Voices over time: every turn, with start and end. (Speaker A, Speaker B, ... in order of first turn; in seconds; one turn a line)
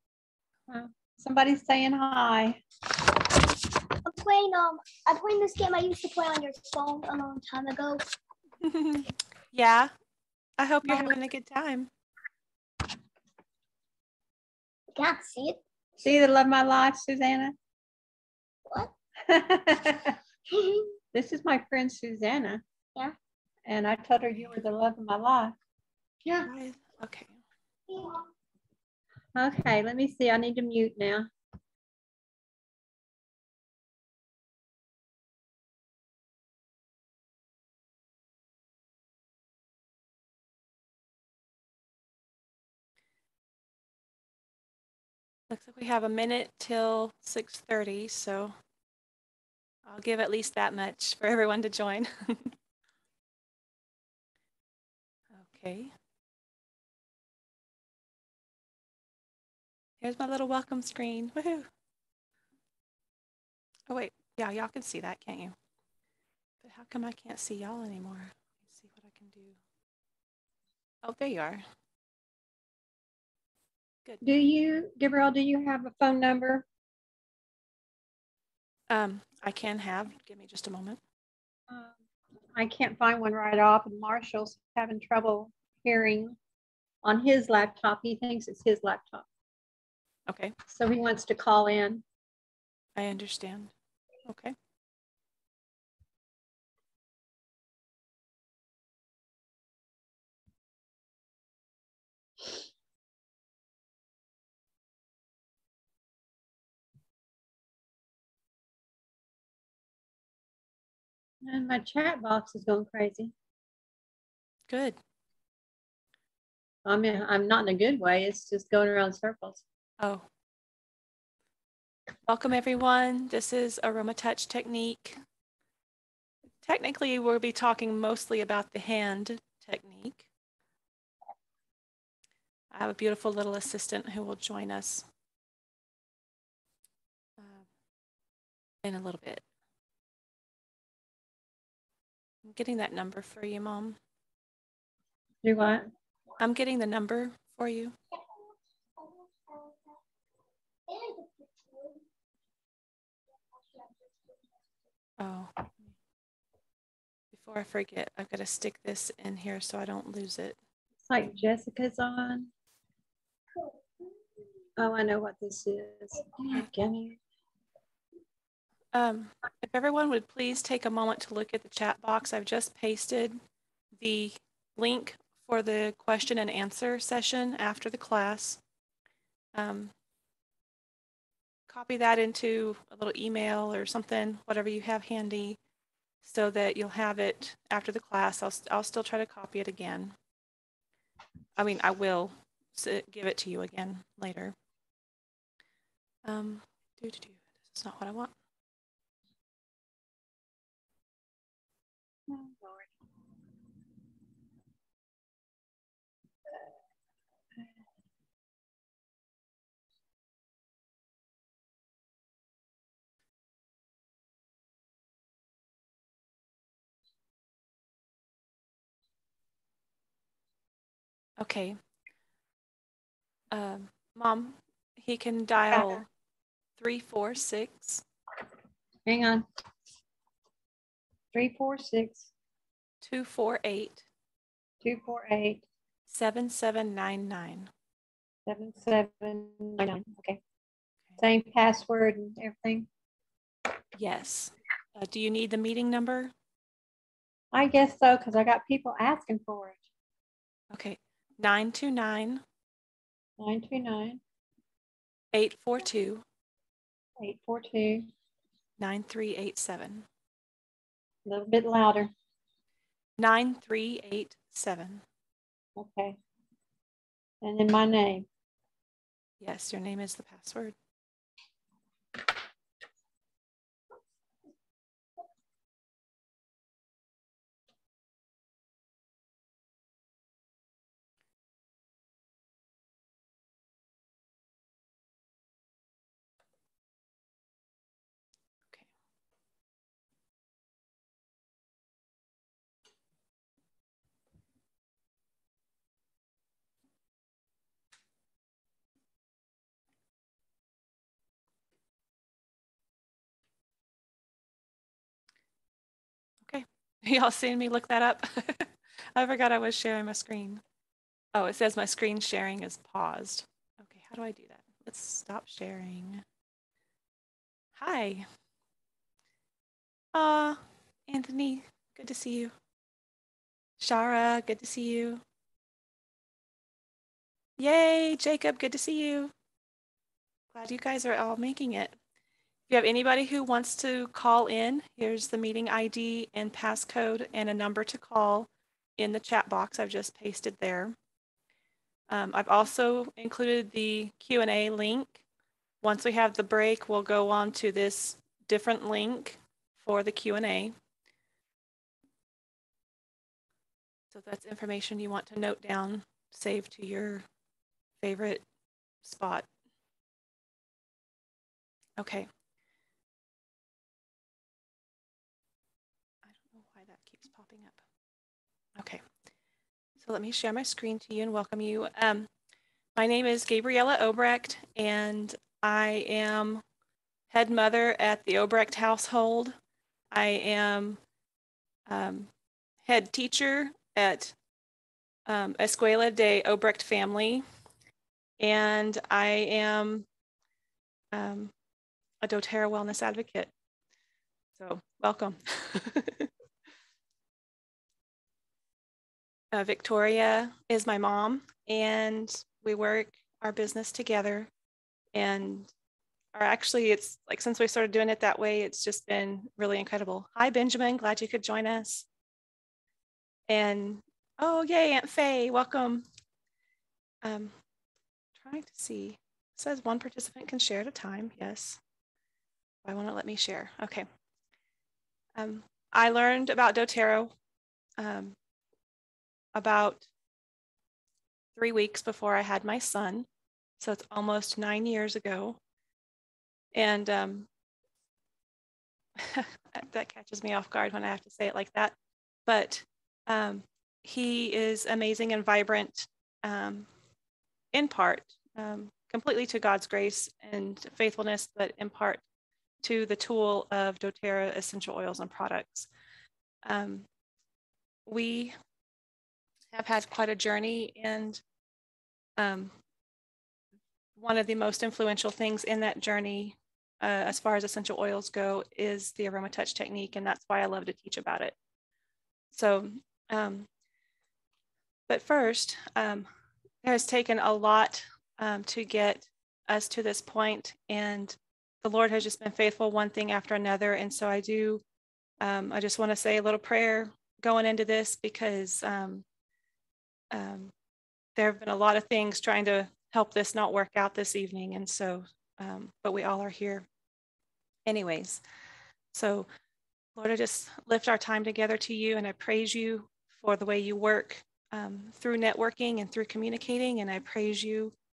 Speaker A: 0.7-2.6
Speaker B: 4.0-8.0
Speaker C: 8.6-9.9
Speaker C: 10.6-11.9
Speaker B: 14.9-15.6
Speaker A: 16.0-17.6
Speaker A: 19.3-20.2
Speaker B: 20.5-21.0
Speaker A: 21.1-22.6
Speaker A: 23.7-25.6
Speaker C: 26.4-27.3
Speaker B: 27.9-28.2
Speaker A: 29.4-31.3
Speaker C: 45.5-48.5
Speaker C: 49.9-52.5
Speaker C: 55.3-55.9
Speaker C: 60.0-61.7
Speaker C: 63.9-65.6
Speaker C: 66.6-69.6
Speaker C: 71.0-71.6
Speaker A: 74.2-76.7
Speaker C: 78.9-81.0
Speaker A: 81.7-82.0
Speaker A: 82.5-86.4
Speaker A: 87.0-89.3
Speaker C: 90.3-90.5
Speaker A: 90.7-92.0
Speaker C: 93.0-93.7
Speaker C: 94.3-94.6
Speaker A: 111.4-113.3
Speaker C: 114.7-115.0
Speaker A: 116.9-119.6
Speaker C: 120.0-120.3
Speaker C: 122.2-125.2
Speaker C: 126.6-130.3
Speaker C: 132.7-135.1
Speaker C: 137.4-137.7
Speaker C: 138.8-139.4
Speaker C: 142.4-144.0
Speaker A: 145.4-145.9
Speaker C: 146.4-147.9
Speaker B: 149.0-149.8
Speaker B: 150.9-152.0
Speaker B: 153.7-154.3
Speaker C: 155.2-155.5
Speaker C: 157.3-160.6
Speaker A: 161.1-162.5
Speaker A: 164.8-167.2
Speaker C: 168.9-173.4
Speaker C: 174.0-178.6
Speaker C: 179.6-179.9
Speaker C: 181.7-185.6
Speaker C: 186.2-190.2
Speaker C: 191.6-194.6
Speaker C: 196.2-198.3
Speaker A: 202.3-202.9
Speaker C: 221.4-221.8
Speaker C: 223.5-226.1
Speaker C: 226.8-228.0
Speaker A: 229.1-229.4
Speaker A: 231.3-232.3
Speaker C: 233.0-234.1
Speaker A: 234.8-235.6
Speaker C: 236.1-237.7
Speaker A: 238.5-240.4
Speaker A: 241.2-242.9
Speaker C: 244.0-246.3
Speaker A: 247.5-249.8
Speaker C: 250.7-252.4
Speaker A: 253.4-254.2
Speaker C: 255.3-256.2
Speaker A: 257.2-258.1
Speaker C: 258.8-260.1
Speaker A: 261.3-262.1
Speaker C: 263.2-265.0
Speaker A: 265.8-266.2
Speaker A: 267.4-268.3
Speaker C: 269.4-270.8
Speaker C: 306.4-310.6
Speaker C: 311.4-316.2
Speaker C: 317.8-318.3
Speaker C: 320.1-322.5
Speaker C: 323.8-325.2
Speaker C: 327.6-329.3
Speaker C: 330.5-332.0
Speaker C: 332.7-340.9
Speaker C: 342.1-345.2
Speaker C: 345.8-350.8
Speaker C: 354.1-357.2
Speaker C: 358.0-358.4
Speaker C: 359.0-359.5
Speaker C: 362.0-362.3
Speaker C: 366.2-367.8
Speaker C: 368.8-369.0
Speaker C: 370.0-372.3
Speaker C: 372.9-376.6
Speaker C: 377.3-379.6
Speaker C: 380.1-381.0
Speaker C: 381.9-382.3
Speaker C: 382.8-384.4
Speaker C: 385.3-387.4
Speaker C: 388.4-390.1
Speaker C: 391.1-391.5
Speaker C: 392.2-393.5
Speaker C: 394.6-396.3
Speaker C: 399.5-404.5
Speaker C: 405.1-405.7
Speaker C: 406.4-412.1
Speaker C: 413.5-416.1
Speaker C: 417.2-417.6
Speaker C: 418.4-421.8
Speaker C: 422.8-424.1
Speaker C: 425.4-427.3
Speaker C: 428.0-428.4
Speaker C: 429.6-430.1
Speaker C: 431.6-433.3
Speaker C: 433.8-435.6
Speaker C: 436.7-437.5
Speaker C: 439.2-441.9
Speaker C: 442.5-446.9
Speaker C: 447.7-452.2
Speaker C: 452.8-455.9
Speaker C: 456.6-457.1
Speaker C: 458.1-458.6
Speaker C: 459.7-461.4
Speaker C: 462.4-462.8
Speaker C: 464.2-471.6
Speaker C: 472.5-473.7
Speaker C: 475.1-476.3
Speaker C: 476.8-484.8
Speaker C: 485.4-489.2
Speaker C: 490.3-490.7
Speaker C: 491.4-496.9
Speaker C: 497.9-498.4
Speaker C: 499.1-499.5
Speaker C: 500.2-507.9